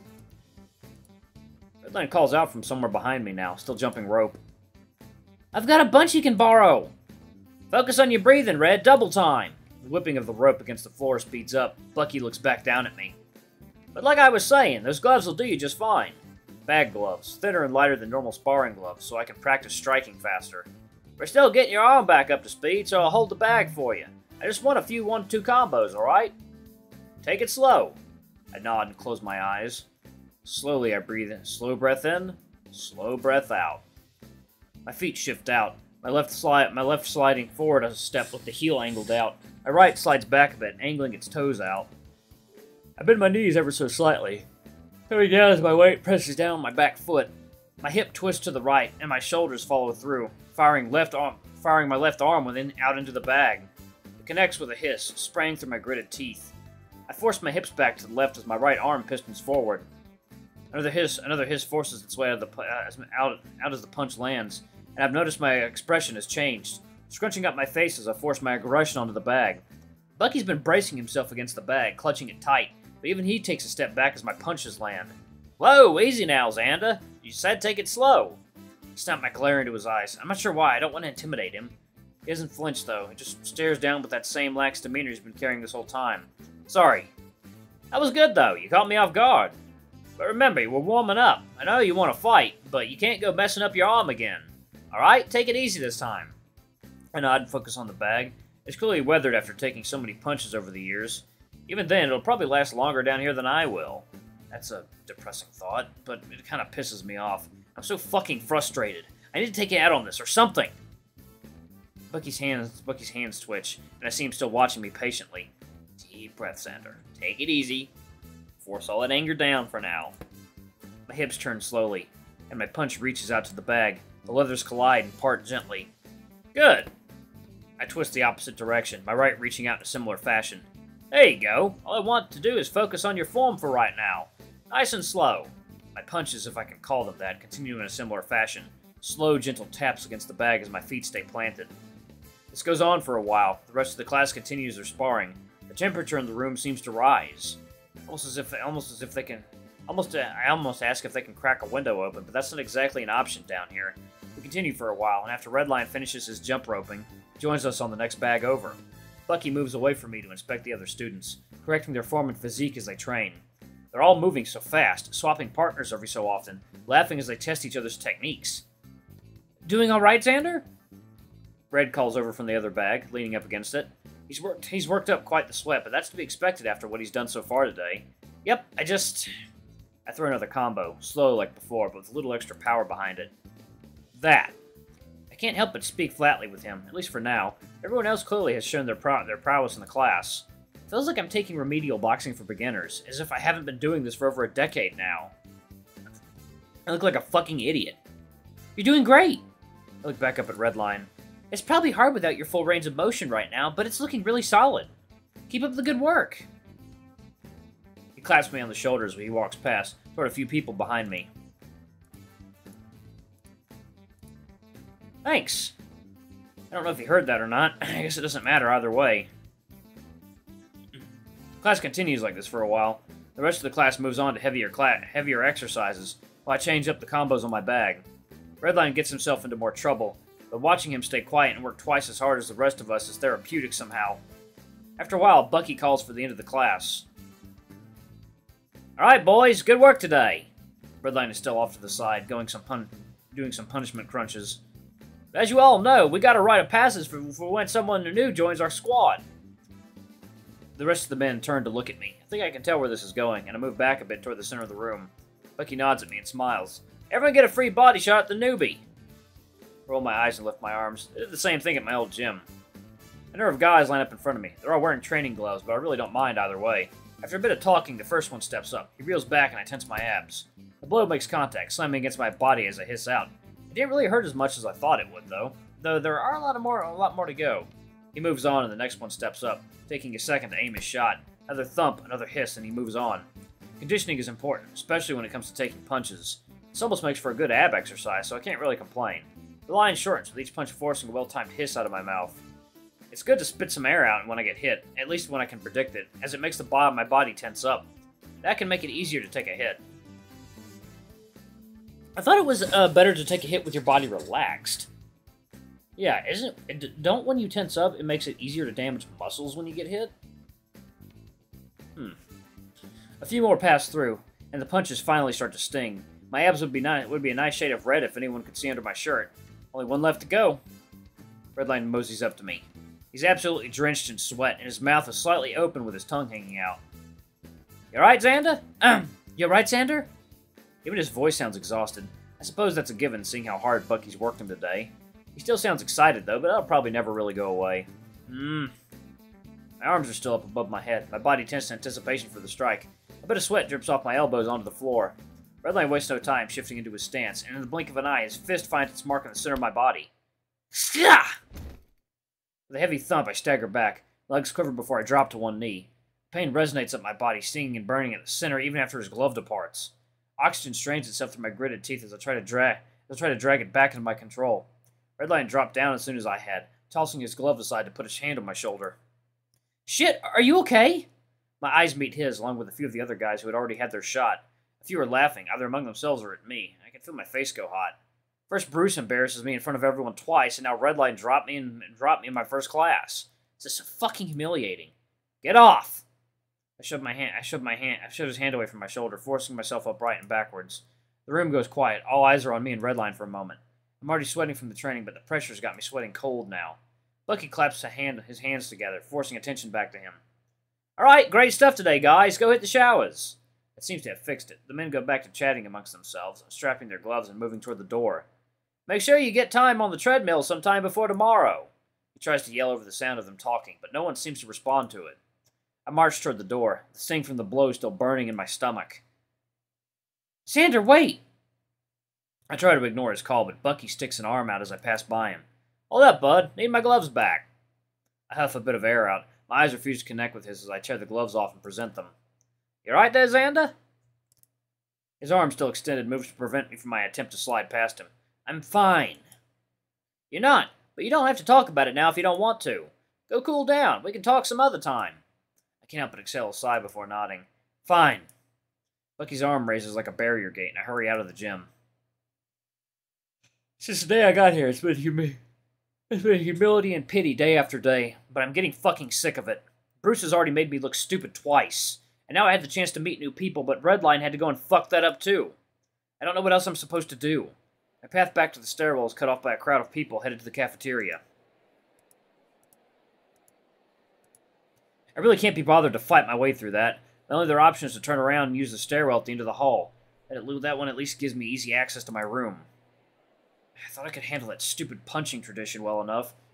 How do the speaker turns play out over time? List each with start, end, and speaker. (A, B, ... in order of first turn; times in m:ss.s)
0:01.8-0:04.4 A
0:05.5-0:06.9 A
0:07.7-0:13.2 A
0:13.9-0:26.3 A
0:27.2-0:28.0 A
0:28.5-0:29.8 A
0:30.4-0:33.8 A
0:34.8-0:41.9 A
0:43.0-0:44.5 A
0:45.1-0:47.3 A
0:47.8-0:53.7 A
0:54.2-0:56.5 A
0:57.1-0:59.8 A
1:00.7-1:09.6 A
1:10.2-1:18.4 A
1:18.9-1:21.7 A
1:22.2-1:27.1 A
1:27.9-1:29.5 A
1:30.2-1:36.4 A
1:37.1-1:50.7 A
1:52.1-1:57.9 A
1:58.6-2:00.1 A
2:01.1-2:05.9 A
2:06.5-2:06.9 A
2:07.8-2:21.7 A
2:22.5-2:48.6 A
2:49.6-2:50.6 A
2:51.7-2:59.3 A
3:00.0-3:03.3 A
3:04.1-3:04.5 A
3:05.3-3:15.3 A
3:16.9-3:18.0 A
3:18.8-3:19.4 A
3:20.0-3:24.9 A
3:25.5-3:26.5 A
3:28.2-3:31.3 A
3:35.2-3:35.7 A
3:36.7-3:39.3 A
3:41.6-3:48.0 A
3:48.6-3:54.2 A
3:55.0-3:57.0 A
3:59.0-4:00.5 A
4:01.0-4:04.6 A
4:05.3-4:09.2 A
4:10.8-4:18.8 A
4:19.9-4:22.4 A
4:23.3-4:43.3 A
4:43.8-4:52.4 A
4:53.1-4:57.8 A
4:58.4-4:59.8 A
5:02.2-5:04.9 A
5:06.0-5:10.1 A
5:13.2-5:20.6 A
5:21.5-5:26.8 A
5:27.9-5:30.1 A
5:30.8-5:38.7 A
5:39.8-5:50.1 A
5:50.7-5:51.3 A
5:52.7-6:09.0 A
6:09.8-6:11.1 A
6:11.6-6:18.0 A
6:18.5-6:26.0 A
6:26.8-6:40.2 A
6:41.0-6:48.2 A
6:48.9-6:55.2 A
6:55.8-6:59.0 A
7:00.4-7:01.2 A
7:02.5-7:07.5 A
7:08.3-7:12.1 A
7:12.8-7:13.7 A
7:15.2-7:19.2 A
7:20.3-7:25.2 A
7:25.8-7:28.3 A
7:29.2-7:31.7 A
7:33.8-7:35.4 A
7:36.1-7:45.6 A
7:46.2-7:51.2 A
7:55.2-8:02.7 A
8:03.9-8:06.4 A